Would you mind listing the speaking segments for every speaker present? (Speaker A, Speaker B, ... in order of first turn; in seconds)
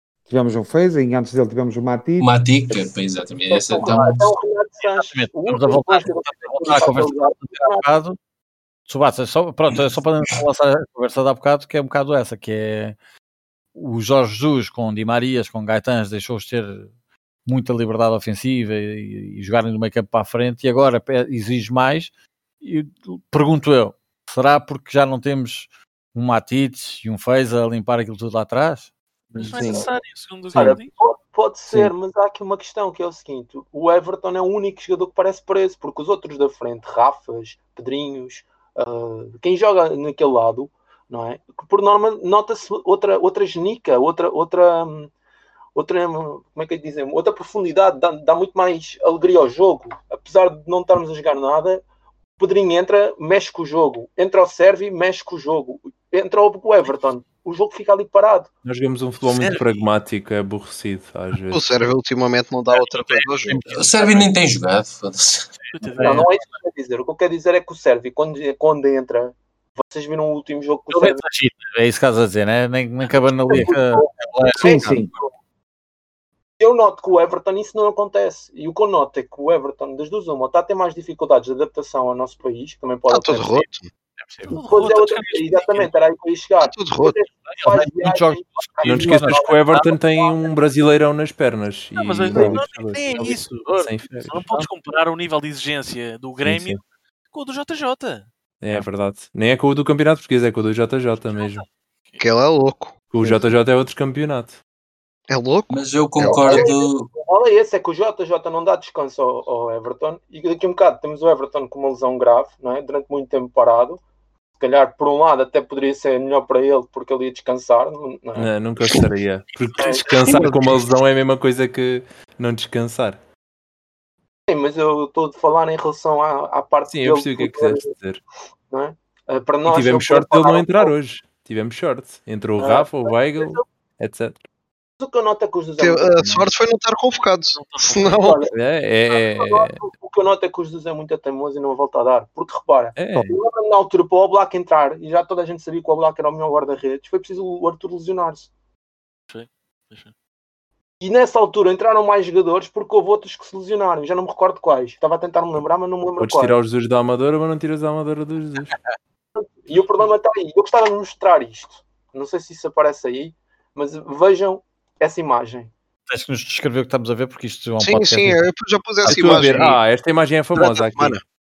Speaker A: 0.3-2.3, 29.4-29.9, 30.5-30.8, 74.6-75.1
Speaker B: 2.2-4.3, 63.7-65.5, 105.7-107.1
Speaker C: 3.5-7.8, 29.5-29.9, 30.5-45.1, 45.7-51.8, 52.4-58.5, 66.0-71.2, 73.5-75.3, 76.6-83.7, 84.5-90.5, 106.3-114.0, 114.6-118.5, 119.8-120.4, 124.5-127.9, 128.7-130.9, 132.6-133.6, 135.0-136.2, 138.0-138.5, 139.1-148.5, 151.0-156.6, 159.3-165.7
Speaker D: 3.8-4.1, 5.0-8.2, 8.9-12.9, 13.7-16.9, 17.4-28.9, 62.7-64.3, 65.8-66.3, 70.9-75.1, 84.2-84.6, 87.5-89.9, 93.1-94.7, 166.1-168.4
Speaker E: 29.4-30.9, 65.6-66.3, 84.5-85.9, 92.0-93.5, 94.3-98.3, 101.2-102.2, 137.5-138.4, 149.3-150.1
Speaker F: 58.6-61.8, 88.8-93.1, 93.8-94.3, 96.4-96.8, 98.6-101.6, 103.1-104.6, 118.3-123.2, 126.9-128.2, 129.6-134.4, 138.5-139.8, 142.9-143.4, 156.2-158.7, 169.0-171.2
Speaker G: 61.5-64.0, 83.1-83.9, 86.6-87.2, 102.2-102.9, 105.3-106.7, 120.1-120.8, 135.8-138.4, 167.8-169.8, 170.5-171.2